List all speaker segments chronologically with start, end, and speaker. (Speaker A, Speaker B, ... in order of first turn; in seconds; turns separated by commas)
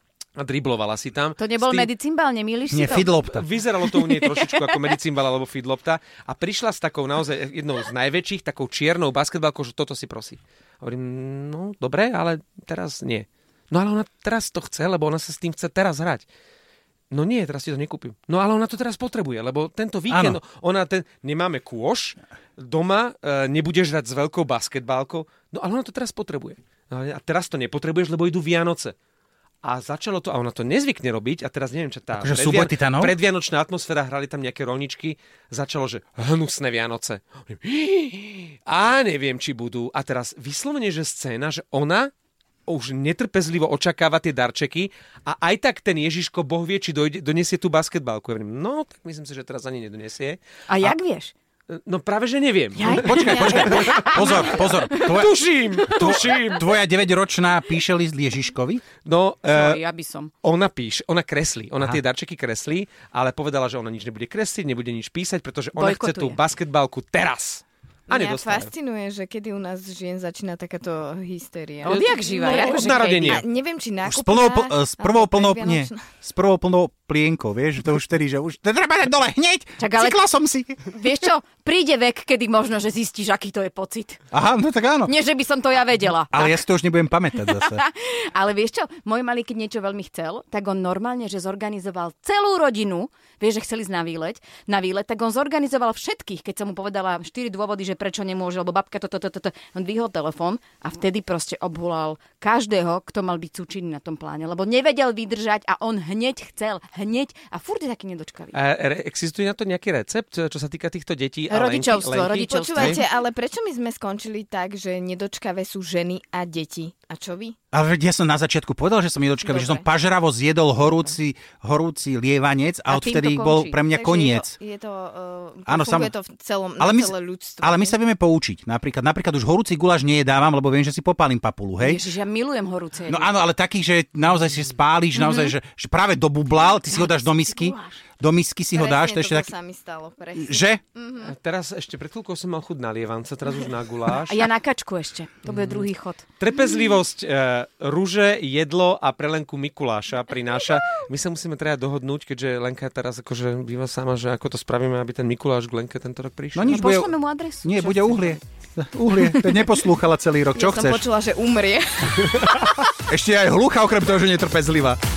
Speaker A: 0.4-1.9, Speaker B: 1.4-3.2, Speaker C: 2.7-3.5, Speaker A: 3.2-16.2, Speaker B: 3.8-4.9, Speaker A: 17.1-28.9, Speaker C: 20.1-20.4, Speaker A: 29.6-42.1, Speaker C: 32.2-33.1, Speaker A: 42.7-50.4, Speaker B: 50.7-51.3, Speaker A: 51.7-56.6, Speaker B: 52.8-55.3, Speaker C: 52.8-58.8, Speaker B: 56.0-56.4, Speaker A: 59.0-59.8, Speaker B: 59.5-60.3, Speaker A: 60.4-68.7, Speaker B: 65.8-66.4, Speaker D: 68.1-76.0, Speaker B: 71.8-73.4, Speaker A: 71.8-73.4, Speaker C: 74.0-80.8, Speaker B: 79.8-80.2, Speaker B: 80.8-84.2, Speaker C: 84.3-85.1, Speaker B: 85.0-86.6, Speaker C: 86.3-87.8, Speaker B: 87.3-108.5, Speaker A: 108.5-113.0, Speaker B: 111.5-113.0, Speaker D: 112.4-117.5, Speaker C: 117.7-124.5, Speaker D: 119.4-119.8, Speaker B: 122.9-123.8, Speaker D: 123.9-128.0, Speaker C: 125.7-126.1, Speaker C: 126.8-132.1, Speaker B: 131.8-133.3, Speaker C: 133.1-139.5, Speaker B: 135.2-135.5, Speaker B: 136.7-138.0, Speaker D: 138.7-141.1, Speaker C: 140.3-140.8, Speaker A: 141.2-144.4, Speaker B: 144.3-146.2, Speaker A: 145.4-156.8, Speaker C: 156.5-161.0, Speaker B: 156.6-158.4, Speaker D: 160.5-162.6, Speaker C: 162.9-165.0